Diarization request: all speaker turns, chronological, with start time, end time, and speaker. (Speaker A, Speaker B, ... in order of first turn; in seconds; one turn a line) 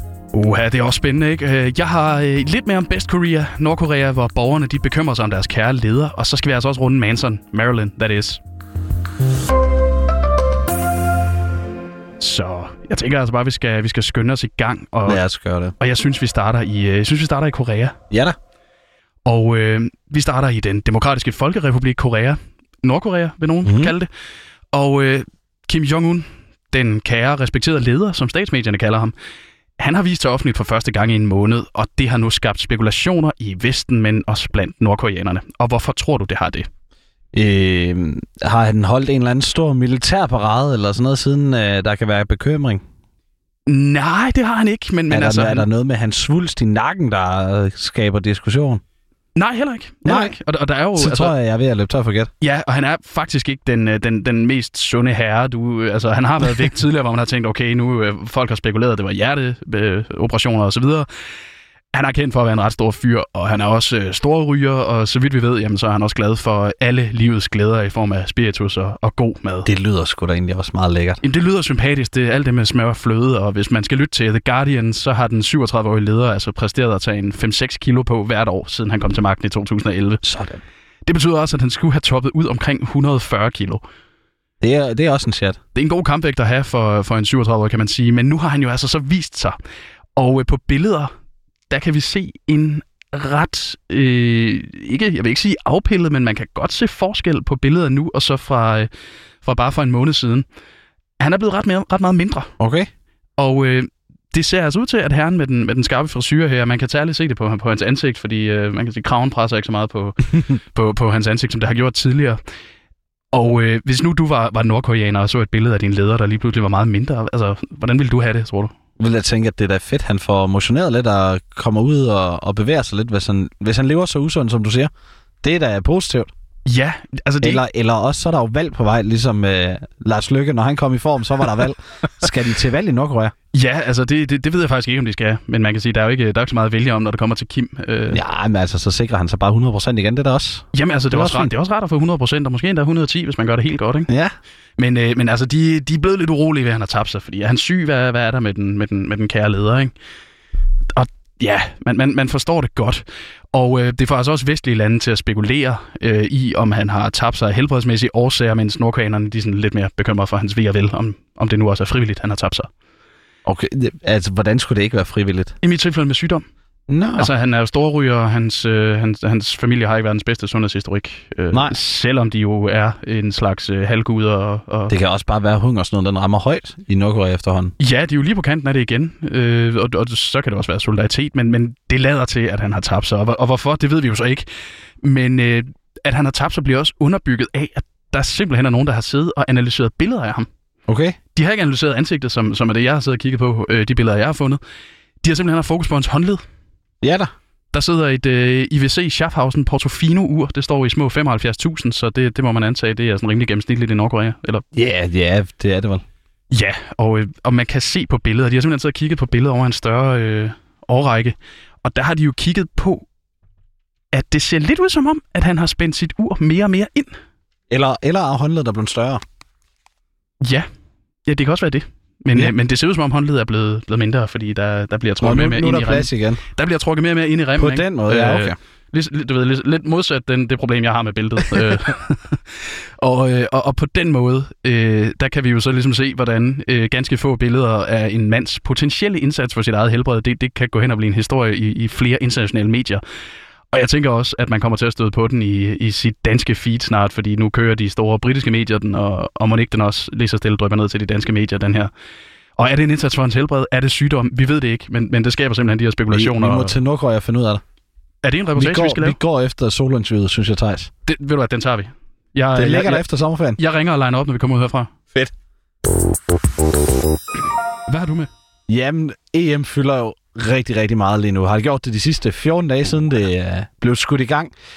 Speaker A: 0.3-8.4
Speaker A: 12.2-15.2
Speaker B: 15.1-15.8
Speaker A: 15.8-18.0
Speaker B: 18.1-18.4
Speaker A: 19.3-24.1
Speaker B: 23.6-23.9
Speaker A: 24.7-29.1
Speaker A: 29.8-36.7
Speaker B: 37.3-42.8
Speaker A: 43.7-45.7
Speaker B: 45.1-48.8
Speaker A: 49.4-51.3
Speaker B: 50.0-50.4
Speaker B: 51.0-52.3
Speaker A: 52.4-61.1
Speaker A: 61.9-69.7
Speaker B: 69.7-71.2
Speaker A: 71.2-80.2
Speaker B: 80.2-80.6
Speaker A: 81.1-83.8
Speaker B: 84.6-85.6
Speaker A: 85.8-89.5
Speaker A: 90.2-91.1
Speaker A: 91.7-98.9
Speaker A: 99.4-100.5
Speaker A: 101.2-102.5
Speaker B: 102.6-102.9
Speaker A: 103.4-112.4
Speaker A: 113.3-118.7
Speaker B: 119.0-124.9
Speaker B: 125.4-126.3
Speaker A: 126.7-127.6
Speaker B: 127.4-133.3
Speaker A: 133.5-138.2
Speaker B: 138.1-141.5
Speaker A: 140.7-144.1
Speaker B: 144.1-144.3
Speaker A: 144.8-149.9
Speaker A: 150.9-162.7
Speaker B: 163.5-165.5
Speaker A: 165.6-166.4
Speaker B: 166.9-167.3
Speaker A: 167.2-175.0
Speaker B: 174.9-177.7
Speaker A: 177.8-184.5
Speaker A: 185.0-190.5
Speaker B: 190.9-191.2
Speaker A: 191.3-194.6
Speaker A: 195.2-196.4
Speaker B: 197.0-197.3
Speaker A: 197.7-204.6
Speaker B: 204.7-206.0
Speaker A: 206.5-213.1
Speaker A: 214.1-217.2
Speaker B: 217.7-219.2
Speaker A: 221.3-243.0
Speaker B: 225.2-226.4
Speaker B: 227.6-228.6
Speaker A: 243.7-251.9
Speaker A: 252.6-256.8
Speaker B: 256.1-257.6
Speaker A: 258.2-259.2
Speaker B: 258.6-260.9
Speaker A: 261.1-263.1
Speaker B: 262.6-263.6
Speaker A: 263.6-264.9
Speaker A: 267.9-268.3
Speaker B: 268.7-274.5